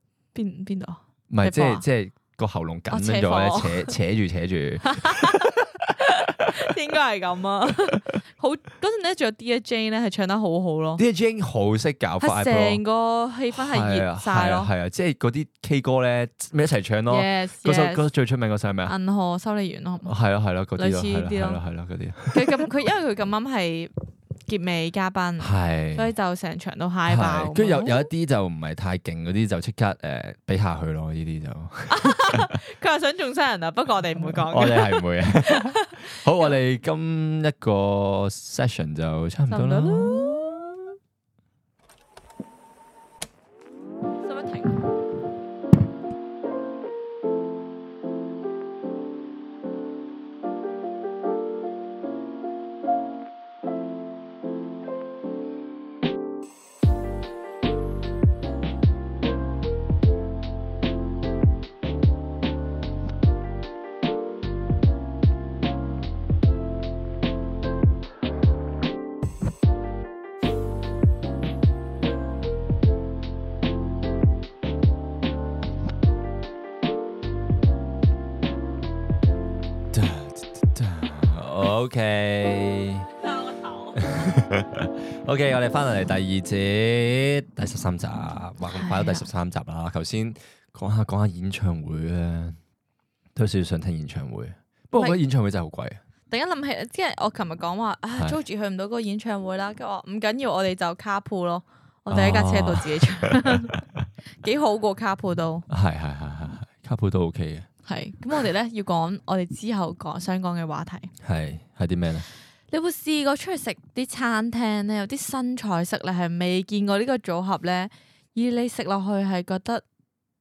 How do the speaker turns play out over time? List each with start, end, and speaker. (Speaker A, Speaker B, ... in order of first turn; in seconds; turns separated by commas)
Speaker A: 0.3-1.9, Speaker B: 1.3-5.6, Speaker A: 2.9-3.9, Speaker A: 4.8-11.0, Speaker B: 11.0-12.8, Speaker A: 12.2-14.7, Speaker B: 13.5-18.9, Speaker A: 17.1-18.1, Speaker A: 18.9-20.1, Speaker B: 20.1-22.7, Speaker A: 20.8-21.6, Speaker A: 22.3-23.9, Speaker A: 24.5-28.1, Speaker B: 25.4-26.1, Speaker B: 27.1-32.6, Speaker A: 31.9-36.2, Speaker B: 34.3-41.0, Speaker A: 39.5-40.5, Speaker A: 44.2-44.9, Speaker B: 79.9-83.1, Speaker B: 83.9-92.6, Speaker A: 88.7-89.3, Speaker B: 93.3-96.0, Speaker A: 94.9-95.2, Speaker A: 96.3-103.7, Speaker B: 102.1-104.0, Speaker A: 104.4-105.7, Speaker B: 105.7-107.7, Speaker A: 107.9-111.1, Speaker B: 111.2-112.3, Speaker A: 112.7-119.8